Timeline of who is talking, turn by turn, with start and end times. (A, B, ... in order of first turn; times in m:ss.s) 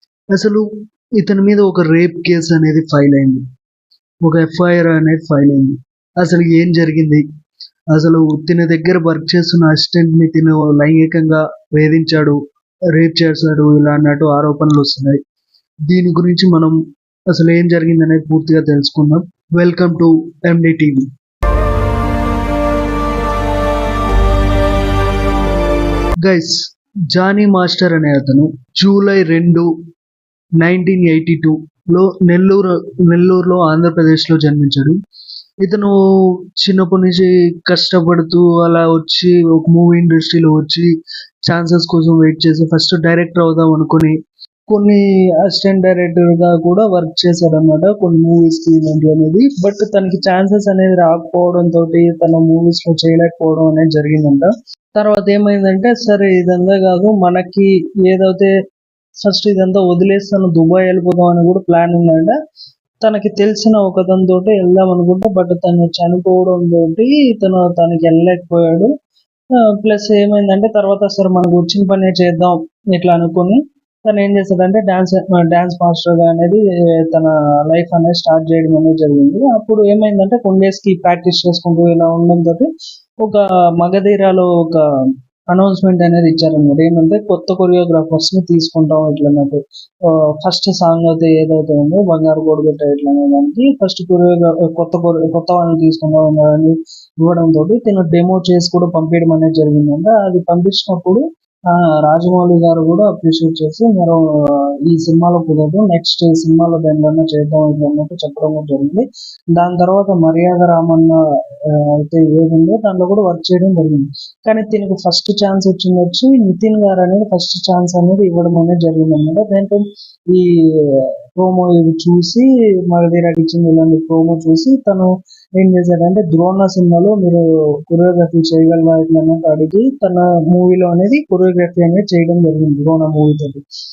0:00.3-0:00.7 A
0:01.2-0:03.4 A
0:04.2-0:07.2 A
0:07.9-0:12.4 A
0:12.9-0:15.2 A
0:15.9-0:16.8 A
0:17.3-0:21.1 A
0:26.2-0:29.7 A
0:30.6-0:35.0 A
0:35.6-0:36.0 A
0:36.6-0:40.9 A
0:41.5-0:44.2 A
0:44.7-0:58.5 A
0:59.2-1:02.3 A
1:03.0-1:08.9 A
1:09.8-1:22.7 A
1:23.2-1:24.8 A
1:25.5-1:29.6 A
1:30.1-2:13.6 A